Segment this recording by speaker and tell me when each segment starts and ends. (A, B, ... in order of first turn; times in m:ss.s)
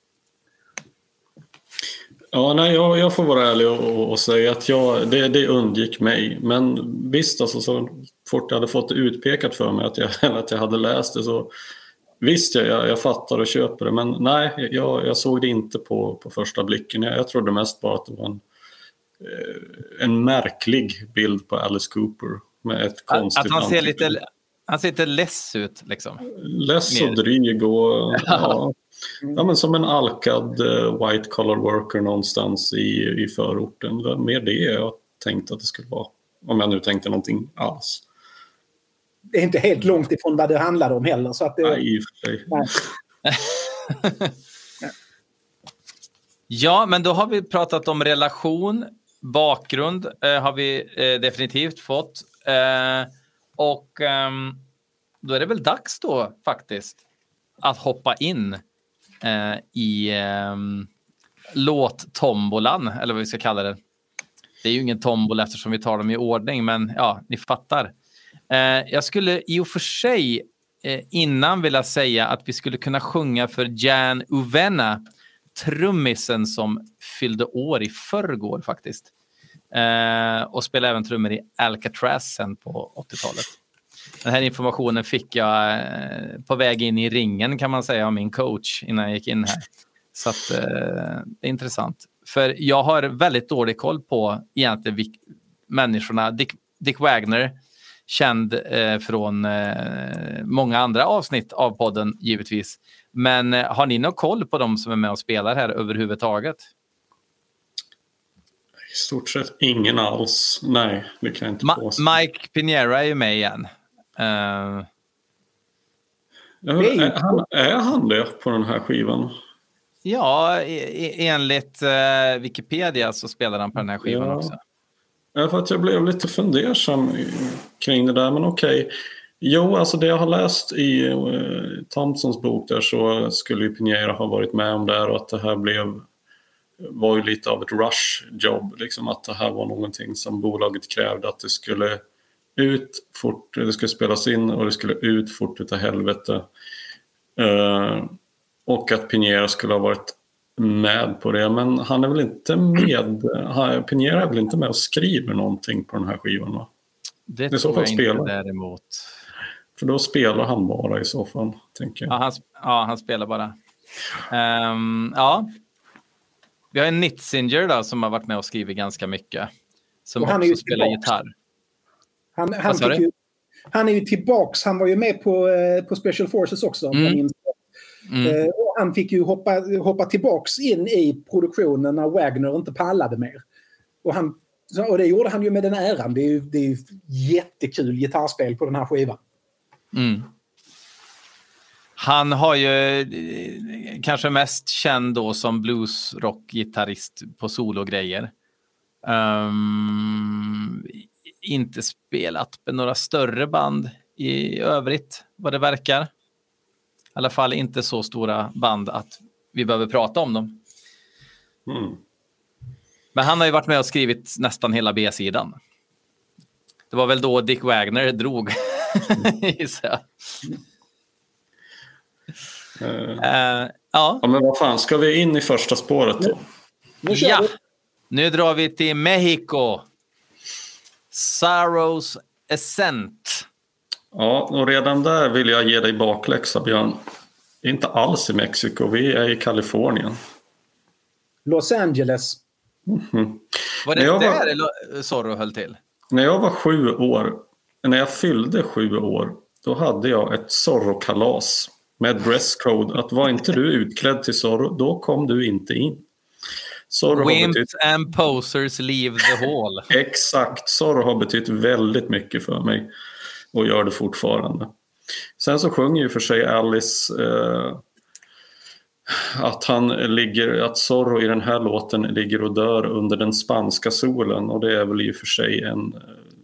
0:02.3-0:11.5 A
0:12.2-0:18.4 A
0:19.2-0:24.2 A
0:23.1-0:26.2 B
0:26.3-0:28.7 A
0:26.9-0:27.2 B
0:28.2-0:28.5 B
0:29.3-0:38.0 A
0:39.3-0:41.8 C
0:41.6-0:42.8 A
0:43.3-0:44.3 B
0:46.5-0:54.6 B
0:55.2-0:57.0 B
0:57.6-0:58.6 B
0:59.2-1:00.9 B
1:01.5-1:03.8 B
1:04.6-1:07.9 B
1:08.5-1:15.0 B
1:15.5-1:19.1 B
1:19.7-1:23.5 B
1:24.2-1:37.6 B
1:38.1-1:46.6 B
1:48.9-1:52.0 A
1:51.6-1:54.9 B
1:56.6-1:59.3 A
1:56.8-1:57.4 C
2:00.0-2:04.6 B
2:04.0-2:04.5 A
2:05.4-2:16.1 A
2:16.8-2:22.0 A
2:22.6-2:26.4 A
2:27.4-2:28.1 A
2:28.7-2:36.7 A
2:37.3-2:39.1 B
2:37.5-2:38.3 A
2:39.8-2:42.1 A
2:42.1-2:43.5 B
2:44.3-2:45.5 B
2:46.7-2:49.5 B
2:50.1-2:51.3 B
2:50.2-2:51.1 C
2:52.4-2:53.1 C
2:52.7-2:53.0 B
2:53.7-2:57.6 C
2:56.9-2:57.2 B
2:58.1-2:58.4 B
2:58.2-3:03.4 C
3:04.0-3:09.2 C
3:09.9-3:10.3 B
3:12.0-3:18.3 B
3:19.0-3:26.1 B
3:27.2-3:30.6 B
3:31.7-3:32.0 A
3:33.1-3:35.6 B
3:36.9-3:40.4 B
3:42.8-3:43.2 A
3:43.2-3:44.2 B
3:44.2-3:46.4 A
3:47.0-3:47.5 C
3:47.1-3:47.5 B
3:48.1-3:49.8 B
3:51.1-3:53.4 B
3:54.1-3:57.0 A
3:57.6-4:00.2 A
4:01.4-4:02.4 C
4:02.9-4:04.5 A
4:03.8-4:05.8 B
4:06.1-4:16.0 A
4:16.9-4:17.7 A
4:17.1-4:19.9 B
4:19.9-4:22.9 A
4:23.5-4:24.7 A
4:25.4-4:27.8 A
4:29.1-4:36.2 A